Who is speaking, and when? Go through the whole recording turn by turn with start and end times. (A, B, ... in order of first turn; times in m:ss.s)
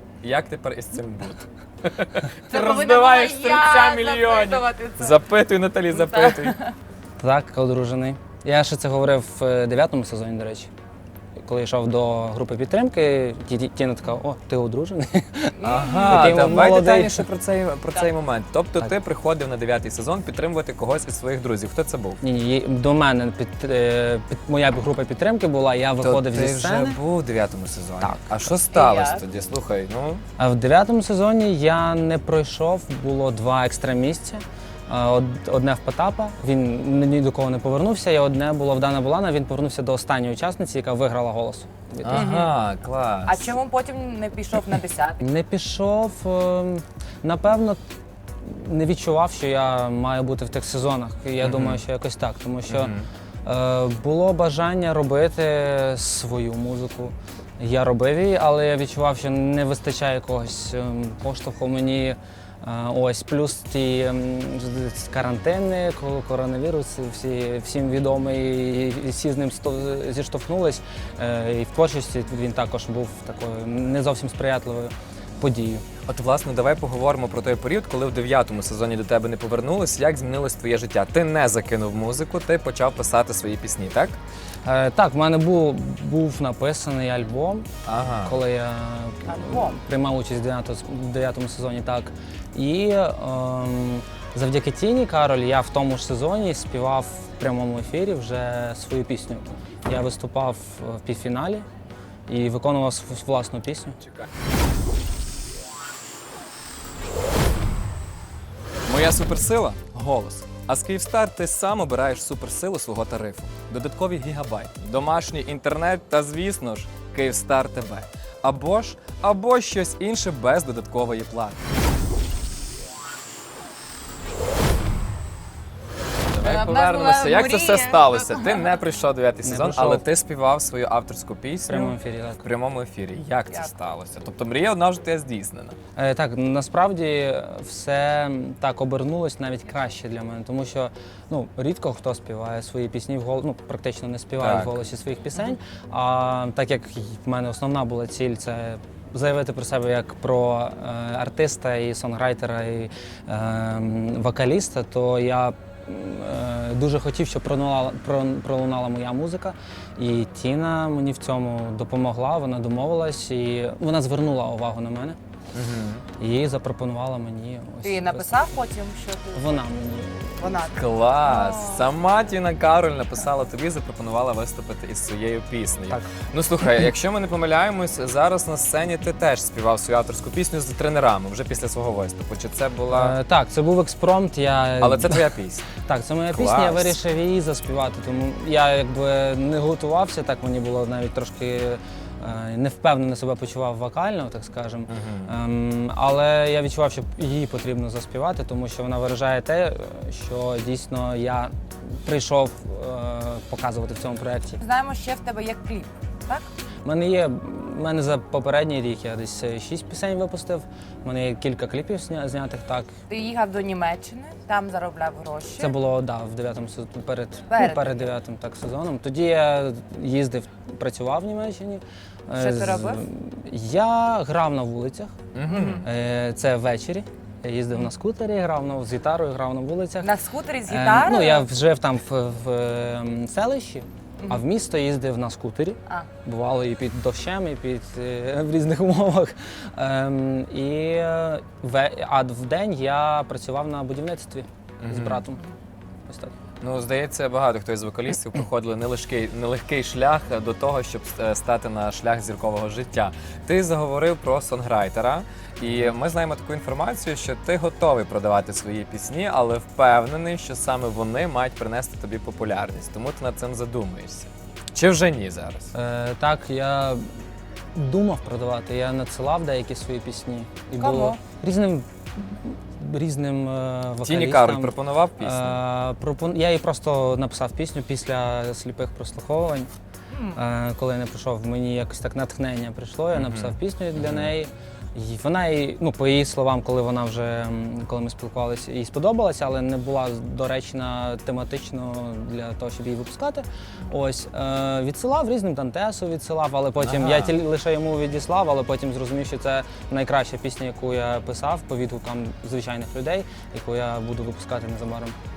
0:00.2-0:06.6 A
0:02.5-0:05.2 B
0:06.0-0:06.7 B
0:07.2-0:10.7 C
0:11.4-0:17.3 C
0:15.6-0:16.4 B
0:15.6-0:22.2 A
0:22.2-0:27.0 C
0:26.0-0:30.2 A
0:28.0-0:28.4 C
0:28.7-0:29.2 B
0:30.4-0:42.4 C
0:42.0-0:43.5 A
0:42.1-0:42.6 B
0:43.3-0:45.2 B
0:45.2-0:47.8 C
0:48.4-0:52.9 C
0:51.4-0:51.8 A
0:52.7-0:53.1 A
0:53.4-1:15.8 C
1:16.1-1:24.2 A
1:24.6-1:27.7 C
1:27.9-1:28.4 A
1:28.2-1:41.7 C
1:29.2-1:29.8 B
1:42.3-1:44.0 C
1:48.9-2:01.6 A
2:06.3-2:15.8 A
2:06.4-2:08.7 B
2:09.4-2:10.1 C
2:11.7-2:12.4 C
2:16.0-2:45.2 C
2:24.4-2:24.8 A
2:45.5-2:46.0 A
2:46.2-2:48.6 C
2:47.8-2:49.6 B
2:49.4-2:50.6 C
2:50.4-2:51.9 B
2:50.7-3:03.2 A
3:02.9-3:05.3 C
3:04.8-3:05.7 A
3:05.8-3:21.5 C
3:06.3-3:07.0 A
3:14.9-3:15.4 A
3:22.0-3:24.6 C
3:24.6-3:26.5 B
3:26.8-3:32.9 C
3:33.1-3:35.7 B
3:35.6-3:45.2 C
3:37.5-3:38.0 B
3:42.4-3:43.0 B
3:45.3-3:45.8 A
3:45.5-3:45.8 B
3:45.8-3:50.1 C
3:50.0-3:51.5 B
3:50.7-4:05.4 C
4:04.8-4:05.2 A
4:06.1-4:06.3 C
4:06.6-4:25.7 A
4:15.6-4:15.9 C
4:25.7-4:27.1 C
4:27.7-4:39.7 C
4:30.8-4:31.2 B
4:34.0-4:35.6 A
4:40.1-4:40.4 B
4:40.4-5:05.2 C
4:43.1-4:44.3 A
4:56.8-4:57.3 A